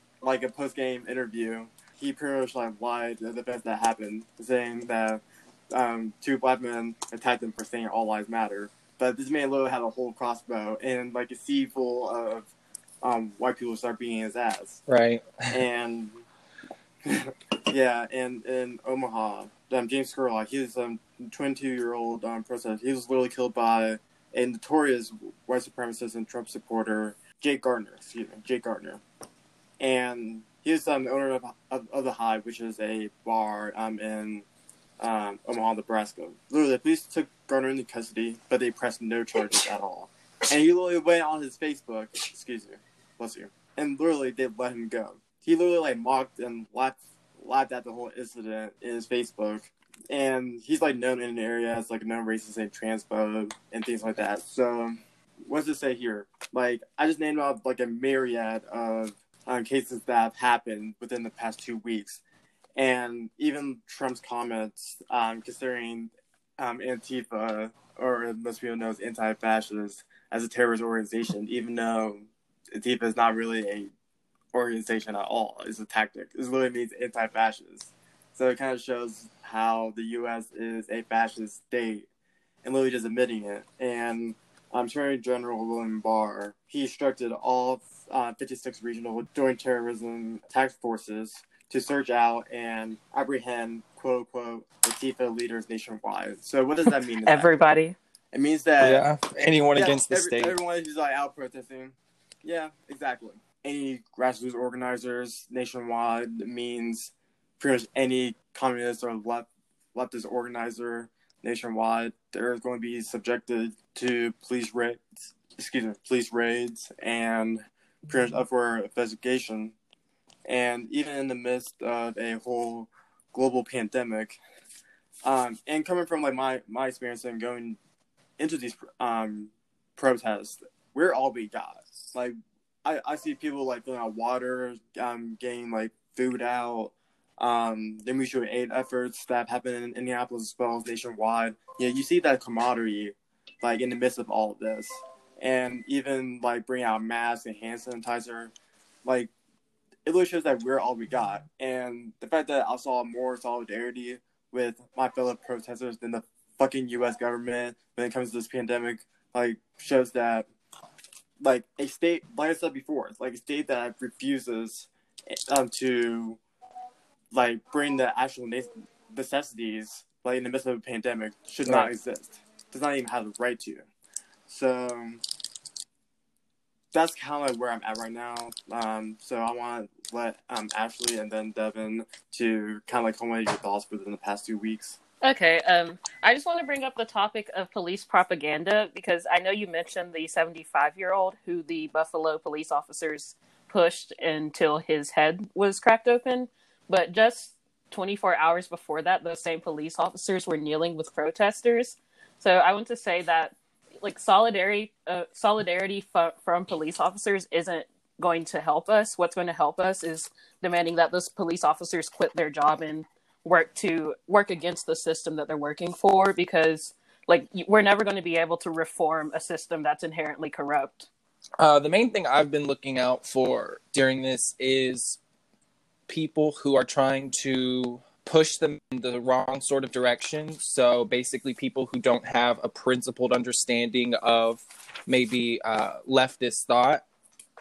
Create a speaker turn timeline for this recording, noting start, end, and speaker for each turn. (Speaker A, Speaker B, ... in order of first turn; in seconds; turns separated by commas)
Speaker A: 0.2-12.5, Speaker A: 13.0-14.8, Speaker B: 14.9-15.6, Speaker A: 15.5-16.2, Speaker A: 17.1-29.0, Speaker A: 29.8-34.5, Speaker A: 35.0-62.2, Speaker A: 62.8-73.9, Speaker A: 74.5-82.1, Speaker A: 82.6-97.5, Speaker C: 97.2-98.0, Speaker A: 98.3-99.1, Speaker B: 98.8-100.5, Speaker A: 99.7-119.7, Speaker A: 120.5-124.4, Speaker A: 125.2-127.8, Speaker A: 128.4-148.5, Speaker A: 149.0-149.3, Speaker A: 150.1-160.5, Speaker A: 161.4-166.4, Speaker A: 167.3-173.8, Speaker B: 171.7-171.9, Speaker A: 174.5-175.2, Speaker A: 176.9-185.0, Speaker C: 185.2-221.1, Speaker B: 221.6-225.2, Speaker B: 226.1-237.0